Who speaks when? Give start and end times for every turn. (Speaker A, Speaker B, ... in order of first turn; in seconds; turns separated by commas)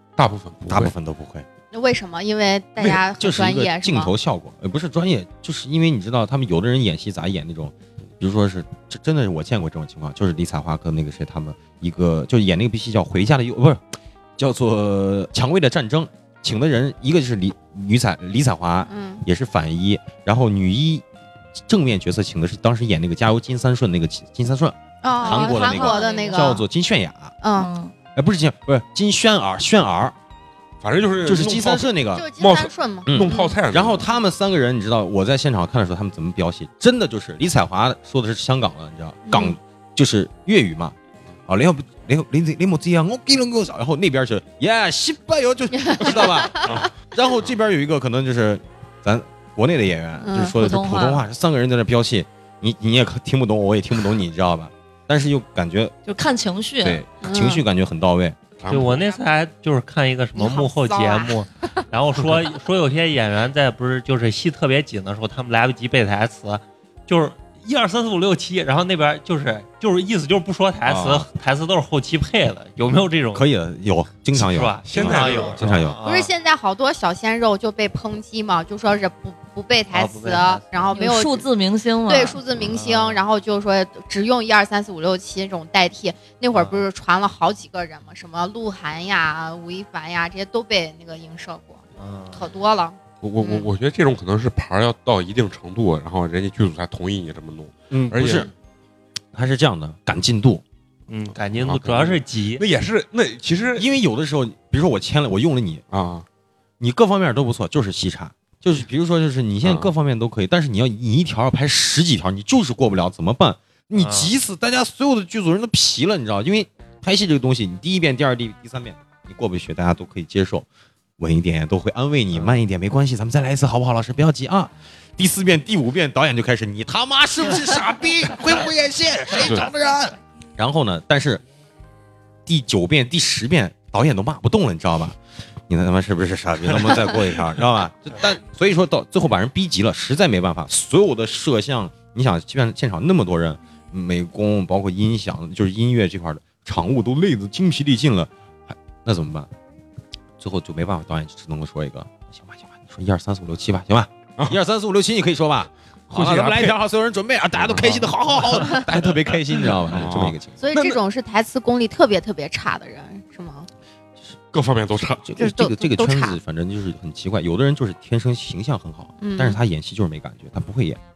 Speaker A: 0.2-0.9, Speaker B: 0.7-1.4, Speaker C: 1.7-4.1, Speaker B: 2.8-21.1, Speaker C: 18.9-19.2, Speaker B: 21.7-27.4, Speaker C: 25.0-26.6, Speaker D: 25.2-26.6, Speaker C: 27.4-27.7, Speaker D: 27.5-27.9, Speaker B: 28.1-30.1, Speaker A: 30.8-34.0, Speaker B: 31.2-32.3, Speaker C: 32.1-33.5, Speaker B: 33.1-41.0, Speaker C: 39.3-39.6, Speaker B: 41.5-55.9, Speaker C: 45.8-46.9, Speaker C: 50.2-50.5, Speaker D: 50.3-51.2, Speaker D: 56.1-57.0, Speaker B: 56.8-58.4, Speaker C: 57.2-57.6, Speaker A: 58.6-59.2, Speaker E: 58.7-73.5, Speaker C: 60.4-61.4, Speaker B: 70.9-71.3, Speaker B: 73.3-76.0, Speaker E: 74.3-76.3, Speaker A: 74.8-75.8, Speaker C: 76.0-81.5, Speaker E: 79.9-80.8, Speaker D: 80.9-82.4, Speaker C: 82.1-91.8, Speaker E: 82.6-83.2, Speaker E: 86.5-86.9, Speaker E: 92.0-92.5, Speaker C: 92.3-93.7, Speaker A: 93.2-98.5, Speaker B: 97.9-98.5, Speaker B: 99.3-100.6, Speaker E: 101.1-102.6, Speaker A: 101.3-103.9, Speaker B: 103.8-105.8, Speaker A: 105.9-106.2, Speaker B: 106.8-120.7, Speaker A: 109.6-109.9, Speaker E: 114.0-114.3, Speaker B: 121.2-131.4, Speaker A: 129.4-129.7, Speaker B: 132.4-149.5, Speaker B: 150.4-160.6, Speaker A: 156.1-156.8, Speaker A: 157.6-158.1, Speaker A: 159.9-161.0, Speaker C: 160.6-163.7, Speaker A: 164.5-165.3, Speaker B: 165.2-171.0, Speaker C: 165.4-166.4, Speaker C: 169.2-169.6